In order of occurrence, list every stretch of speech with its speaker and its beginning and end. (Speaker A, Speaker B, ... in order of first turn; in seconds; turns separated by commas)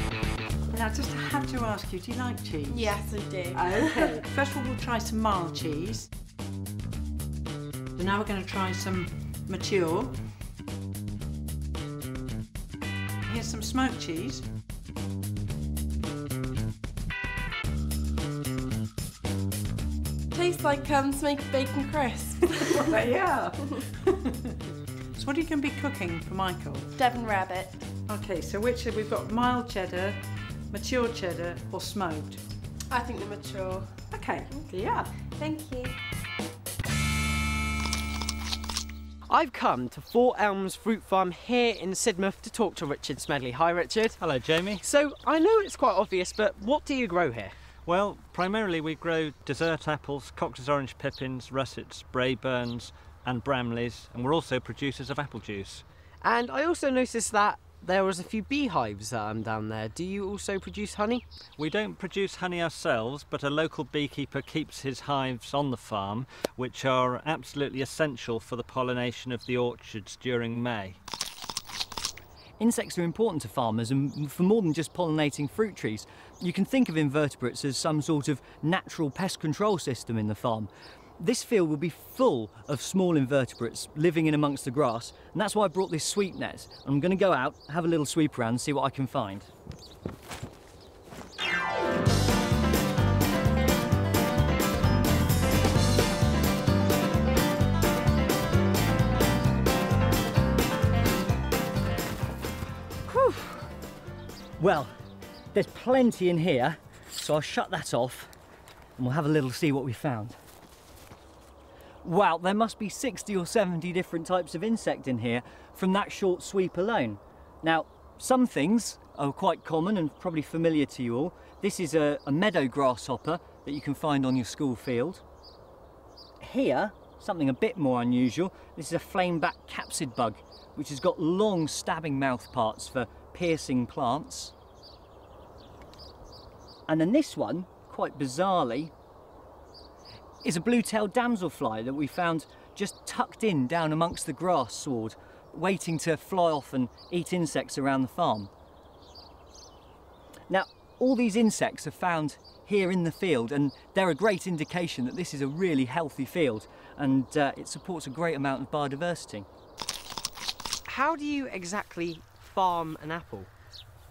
Speaker A: 0.7-3.0, Speaker B: 2.7-4.2, Speaker A: 3.5-6.1, Speaker A: 7.9-10.2, Speaker A: 13.2-14.4, Speaker B: 20.3-23.0, Speaker A: 22.7-24.6, Speaker A: 25.1-26.9, Speaker B: 27.0-27.8, Speaker A: 28.1-30.2, Speaker A: 30.7-32.4, Speaker B: 32.9-34.0, Speaker A: 34.1-35.1, Speaker B: 34.5-36.0, Speaker C: 39.3-44.2, Speaker D: 44.2-44.8, Speaker C: 44.8-47.5, Speaker D: 47.9-55.8, Speaker C: 56.2-61.2, Speaker D: 61.6-71.0, Speaker E: 72.6-89.5, Speaker E: 103.0-103.7, Speaker E: 104.6-104.9, Speaker E: 105.5-108.3, Speaker E: 109.0-110.4, Speaker E: 112.0-125.2, Speaker E: 126.4-134.5, Speaker E: 136.9-138.9, Speaker E: 140.4-148.5, Speaker E: 150.5-159.5, Speaker C: 160.9-163.5